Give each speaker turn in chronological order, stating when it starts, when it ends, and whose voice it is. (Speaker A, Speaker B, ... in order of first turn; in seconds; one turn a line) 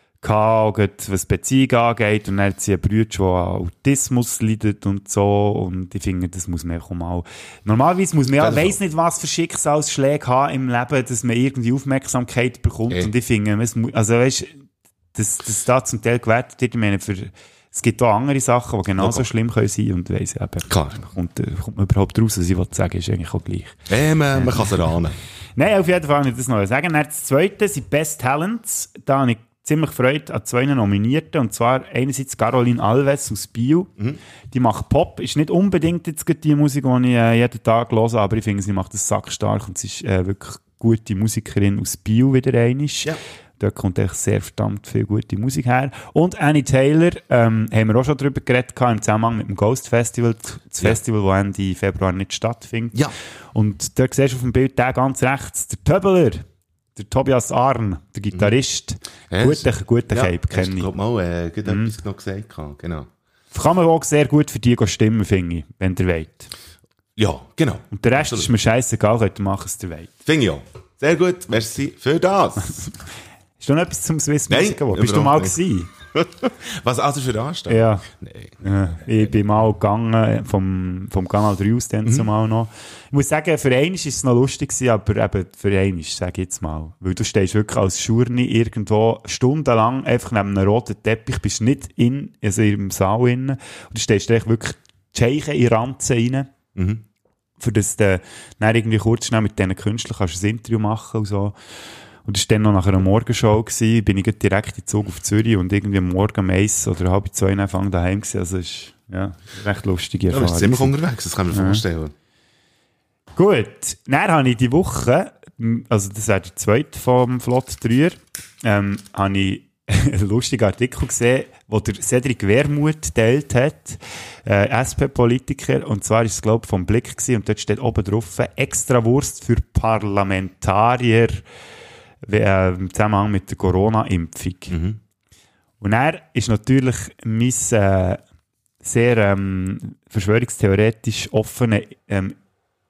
Speaker A: 0.2-14.6
Speaker B: 8.4-8.8
Speaker A: 15.1-23.8
Speaker B: 19.0-19.3
Speaker B: 20.7-21.0
Speaker B: 23.9-25.2
Speaker A: 24.3-24.7
Speaker A: 25.6-33.9
Speaker A: 34.5-53.0
Speaker A: 53.5-56.4
Speaker A: 57.0-60.9
Speaker B: 59.3-63.1
Speaker A: 61.6-61.9
Speaker A: 63.5-66.5
Speaker B: 67.2-68.5
Speaker A: 67.9-70.1
Speaker B: 70.2-72.9
Speaker A: 73.6-75.9
Speaker B: 74.5-75.6
Speaker B: 76.1-79.3
Speaker A: 77.7-78.0
Speaker A: 78.6-96.5
Speaker B: 96.7-97.0
Speaker A: 97.6-101.5
Speaker A: 102.2-110.9
Speaker B: 110.3-112.1
Speaker A: 111.5-111.8
Speaker A: 113.3-131.4
Speaker A: 132.2-134.7
Speaker B: 134.7-135.0
Speaker A: 135.8-138.2
Speaker A: 138.8-142.3